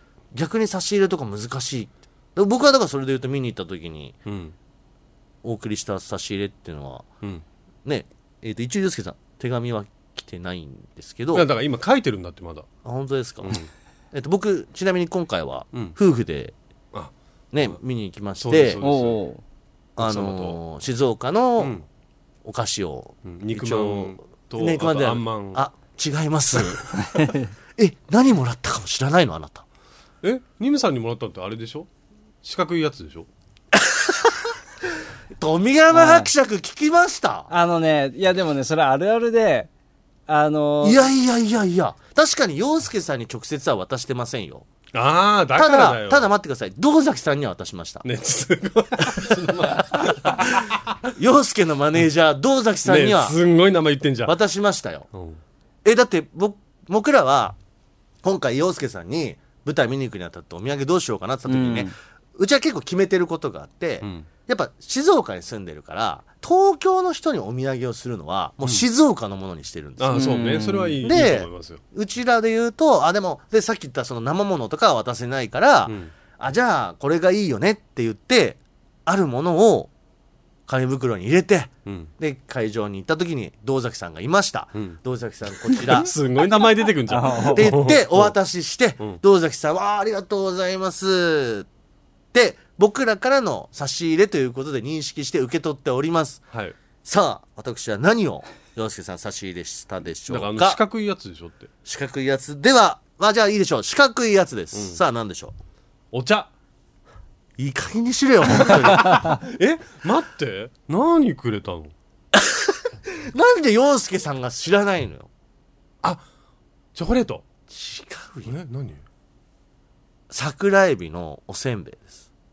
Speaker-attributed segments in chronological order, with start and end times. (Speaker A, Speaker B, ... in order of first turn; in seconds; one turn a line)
Speaker A: 0.3-4.2
Speaker B: 4.2-4.5
Speaker A: 5.4-7.0
Speaker A: 7.8-11.4
Speaker B: 11.3-12.7
Speaker A: 12.8-13.6
Speaker B: 13.4-13.7
Speaker A: 14.1-16.5
Speaker A: 17.5-18.8
Speaker B: 18.4-19.2
Speaker C: 18.8-19.4
Speaker B: 20.0-20.6
Speaker A: 20.0-21.7
Speaker B: 21.6-21.8
Speaker A: 22.4-27.1
Speaker B: 23.2-25.6
Speaker C: 27.0-27.5
Speaker A: 27.8-29.6
Speaker B: 30.2-31.9
Speaker B: 32.4-33.3
Speaker A: 33.7-34.5
Speaker A: 35.3-37.5
Speaker C: 35.9-36.3
Speaker C: 37.5-39.7
Speaker C: 40.3-41.0
Speaker A: 40.8-44.6
Speaker B: 44.9-46.3
Speaker A: 45.5-48.0
Speaker B: 48.0-50.7
Speaker A: 49.2-53.4
Speaker B: 52.8-54.3
Speaker A: 54.2-55.1
Speaker B: 55.1-55.4
Speaker A: 55.8-57.6
Speaker A: 58.2-70.2
Speaker C: 61.5-61.9
Speaker B: 64.0-64.3
Speaker B: 70.0-71.8
Speaker C: 70.1-71.1
Speaker A: 71.0-79.9
Speaker B: 75.8-76.1
Speaker A: 80.7-86.1
Speaker B: 81.8-82.1
Speaker B: 85.6-88.3
Speaker C: 87.1-87.7
Speaker A: 87.5-91.7
Speaker A: 92.3-96.4
Speaker B: 96.5-96.8
Speaker A: 97.0-100.8
Speaker B: 100.3-101.7
Speaker A: 101.8-105.5
Speaker B: 104.7-105.0
Speaker B: 106.1-106.5
Speaker A: 107.6-109.4
Speaker B: 108.5-111.9
Speaker A: 112.3-115.3
Speaker B: 116.9-117.4
Speaker A: 117.7-118.5
Speaker B: 118.5-119.0
Speaker A: 120.3-122.2